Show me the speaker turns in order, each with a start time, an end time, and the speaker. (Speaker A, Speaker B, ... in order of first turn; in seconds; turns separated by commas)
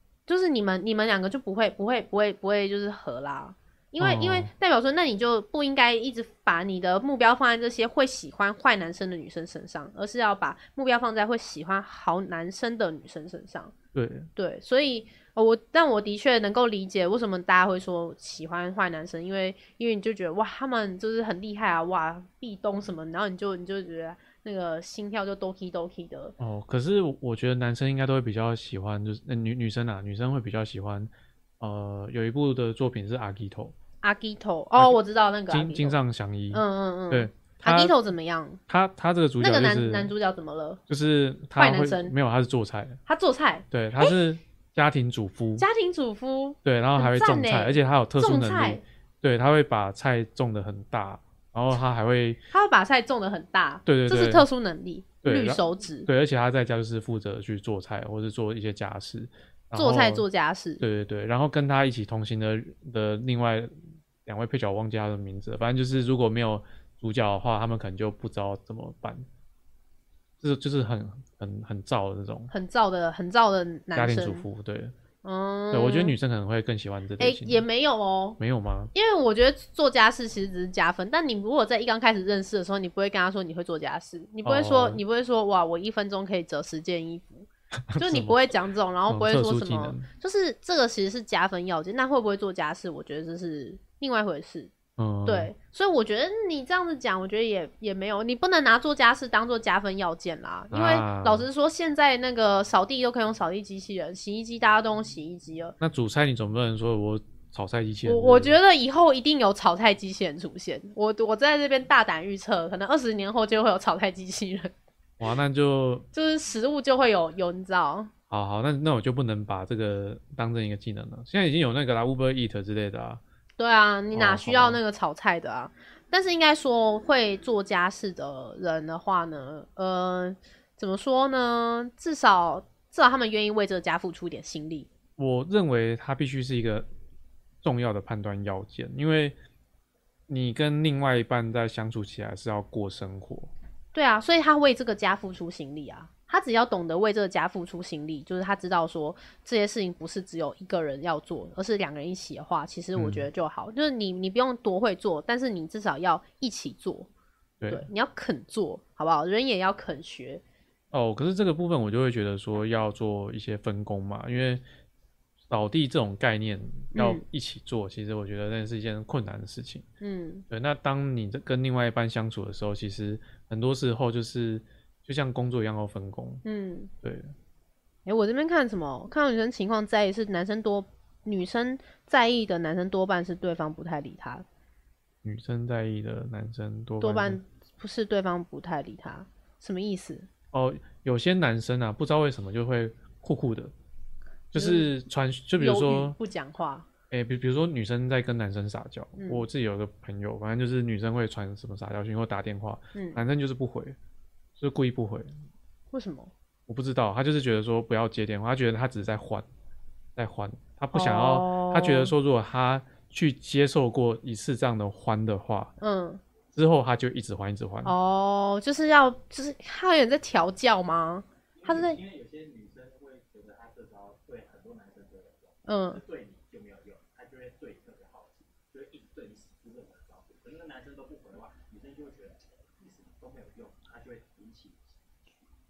Speaker A: 0.3-13.7, Speaker B: 4.0-4.5, Speaker B: 13.9-14.3, Speaker A: 14.4-26.3, Speaker B: 26.4-33.7, Speaker A: 34.0-36.0, Speaker B: 35.5-37.9, Speaker A: 36.5-38.6, Speaker B: 38.7-40.1, Speaker A: 39.4-40.8, Speaker B: 40.9-43.0, Speaker A: 41.5-42.1, Speaker A: 43.1-44.1, Speaker B: 43.7-45.6, Speaker A: 45.6-48.8, Speaker B: 46.6-52.4, Speaker A: 52.5-56.1, Speaker B: 53.9-54.5, Speaker B: 55.2-60.2, Speaker A: 59.7-60.8, Speaker B: 60.8-63.7, Speaker B: 64.2-69.2, Speaker B: 70.4-72.5, Speaker A: 72.5-74.4, Speaker B: 73.9-74.9, Speaker A: 75.2-76.1, Speaker B: 75.7-77.6, Speaker A: 77.2-78.4, Speaker B: 78.4-78.9, Speaker A: 78.9-94.7, Speaker B: 84.4-85.0, Speaker B: 87.9-88.4, Speaker B: 89.1-90.1, Speaker B: 95.0-95.5, Speaker A: 95.2-105.7, Speaker B: 100.7-101.5, Speaker B: 105.8-108.5, Speaker A: 108.0-114.7, Speaker B: 115.2-116.1, Speaker A: 116.1-118.1, Speaker B: 118.3-123.2, Speaker A: 123.6-134.9, Speaker B: 124.1-124.8, Speaker B: 135.2-136.9, Speaker B: 137.6-139.4, Speaker B: 140.3-143.5, Speaker A: 143.9-157.1, Speaker B: 152.9-153.2, Speaker B: 157.6-157.9, Speaker A: 157.7-160.4, Speaker B: 160.9-164.6, Speaker B: 165.5-169.9, Speaker A: 166.9-167.2, Speaker A: 170.0-170.4, Speaker B: 170.5-176.4, Speaker A: 176.4-176.9, Speaker B: 177.0-177.3, Speaker A: 178.1-184.4, Speaker B: 185.2-187.4, Speaker A: 187.0-190.3, Speaker B: 190.5-193.7, Speaker B: 194.5-196.2, Speaker A: 194.6-194.9, Speaker A: 195.6-196.8, Speaker B: 197.1-203.9, Speaker A: 199.2-199.4, Speaker A: 202.9-203.2, Speaker B: 204.6-205.3, Speaker A: 205.9-206.3, Speaker B: 206.7-209.5, Speaker B: 210.2-215.7, Speaker A: 210.9-212.1, Speaker A: 215.8-216.2, Speaker B: 216.5-217.9, Speaker A: 217.8-222.0, Speaker C: 221.5-235.4, Speaker A: 225.7-226.0